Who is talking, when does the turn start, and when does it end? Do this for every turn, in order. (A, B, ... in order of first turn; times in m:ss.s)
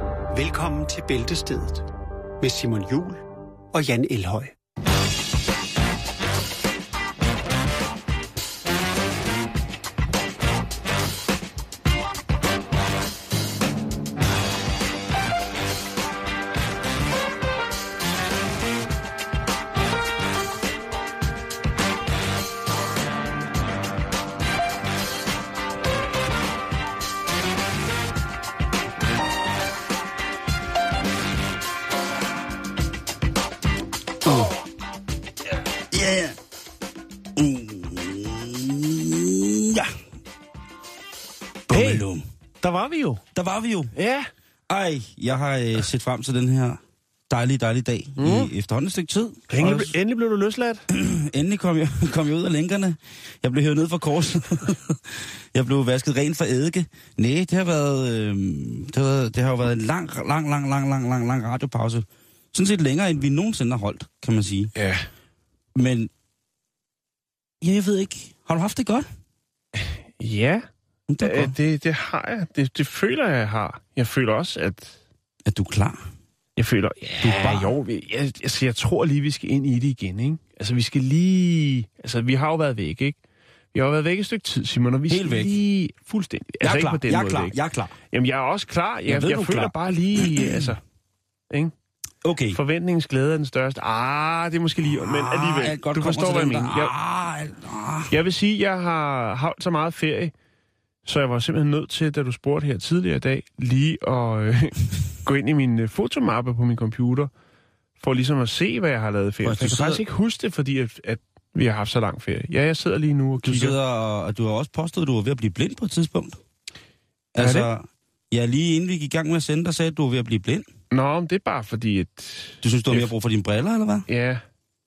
0:00.3-0:01.8 A
0:02.4-0:03.2 A
0:03.7-0:04.5 A
0:34.2-0:34.5 B
0:35.9-0:36.4 B
0:37.4-0:40.0 B
0:41.7-0:42.2 B
0:41.7-0:42.0 C
0:42.6-0:43.2 C
0:43.3-0:43.9 B
0:43.9-0:44.3 C
0:44.7-0:49.9 B
0:48.2-0:48.5 C
0:49.5-0:50.8 C
0:50.9-1:04.7 B
1:04.8-1:05.1 C
1:05.7-1:06.1 B
1:07.6-1:09.1 B
1:09.8-1:10.6 C
1:11.1-1:11.5 B
1:11.2-1:15.0 C
1:15.4-1:16.0 B
1:16.6-1:23.2 C
1:17.2-1:17.7 B
1:23.7-1:27.5 C
1:25.1-1:25.6 B
1:26.6-1:27.9 B
1:28.1-1:30.8 C
1:29.1-1:30.7 B
1:32.2-1:32.6 B
1:32.5-1:36.9 C
1:34.9-1:38.1 B
1:38.1-1:40.3 C
1:41.0-1:47.3 C
1:48.0-1:53.8 C
1:49.4-1:50.0 B
1:53.4-1:56.4 B
1:57.3-2:00.7 B
1:57.4-1:57.7 C
2:00.9-2:03.1 C
2:02.6-2:04.0 B
2:04.1-2:04.4 C